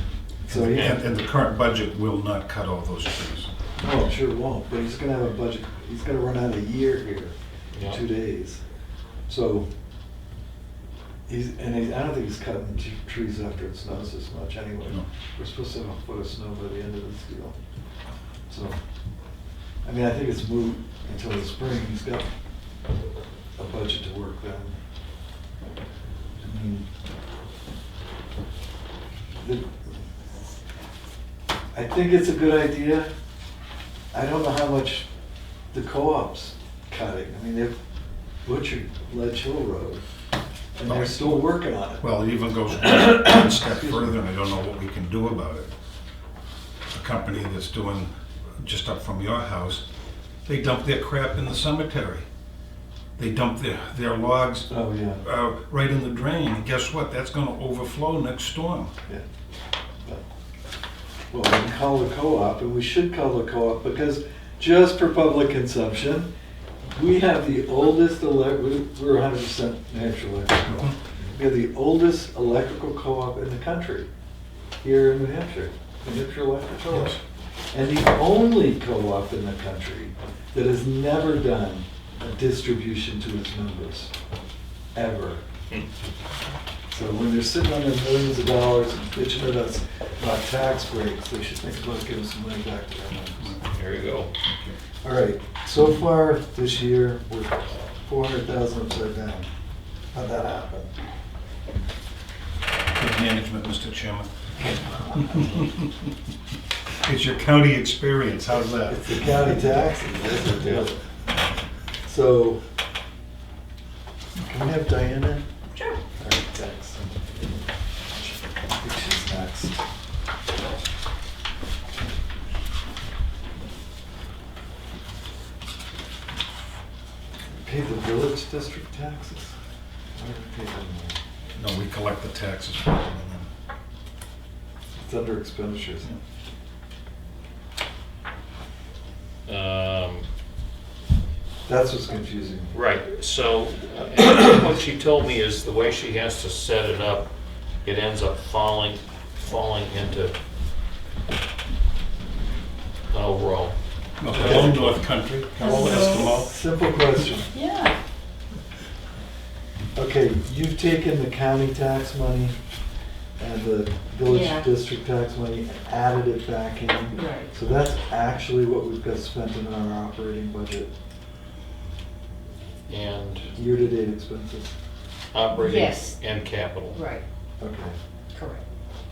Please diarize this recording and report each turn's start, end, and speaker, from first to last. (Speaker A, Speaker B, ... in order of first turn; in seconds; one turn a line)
Speaker A: 0.4-1.1
Speaker B: 0.5-3.5
Speaker A: 3.8-7.3
Speaker C: 7.7-8.0
Speaker A: 7.8-8.6
Speaker A: 9.3-9.7
Speaker A: 11.3-17.6
Speaker A: 18.5-18.8
Speaker A: 19.8-22.3
Speaker A: 23.6-24.8
Speaker A: 26.4-26.9
Speaker A: 29.4-30.0
Speaker A: 31.7-33.1
Speaker A: 34.1-35.1
Speaker A: 35.7-37.8
Speaker A: 38.4-40.0
Speaker A: 40.8-42.1
Speaker B: 40.9-41.4
Speaker B: 42.0-45.7
Speaker A: 42.8-44.1
Speaker B: 46.9-49.8
Speaker B: 50.5-52.2
Speaker B: 53.2-54.7
Speaker A: 54.7-55.2
Speaker B: 55.2-58.9
Speaker A: 61.3-66.3
Speaker A: 66.9-74.1
Speaker B: 70.6-71.0
Speaker A: 74.8-77.2
Speaker B: 76.9-77.2
Speaker A: 77.7-84.1
Speaker A: 84.9-85.4
Speaker A: 86.9-93.6
Speaker C: 93.7-94.3
Speaker B: 94.4-94.7
Speaker A: 95.0-99.5
Speaker A: 100.1-100.9
Speaker B: 102.9-104.3
Speaker A: 104.6-105.6
Speaker B: 105.3-105.9
Speaker B: 107.0-109.3
Speaker A: 108.9-111.0
Speaker A: 112.0-112.6
Speaker A: 114.4-115.5
Speaker A: 116.2-117.3
Speaker A: 118.7-119.8
Speaker A: 127.6-129.5
Speaker A: 130.2-131.2
Speaker B: 131.6-133.5
Speaker A: 135.0-136.1
Speaker C: 139.4-140.2
Speaker A: 141.7-142.7
Speaker C: 142.7-147.3
Speaker C: 147.8-150.3
Speaker C: 153.1-153.8
Speaker B: 154.2-156.6
Speaker C: 154.3-155.0
Speaker A: 154.3-154.9
Speaker D: 155.6-156.3
Speaker A: 155.7-157.5
Speaker D: 157.5-157.9
Speaker A: 159.9-162.6
Speaker A: 163.4-170.9
Speaker D: 164.3-164.6
Speaker D: 167.1-167.5
Speaker C: 172.9-173.5
Speaker A: 173.5-174.7
Speaker C: 175.3-177.0
Speaker D: 175.5-176.2
Speaker D: 176.9-177.2
Speaker A: 177.6-177.9
Speaker D: 178.3-178.6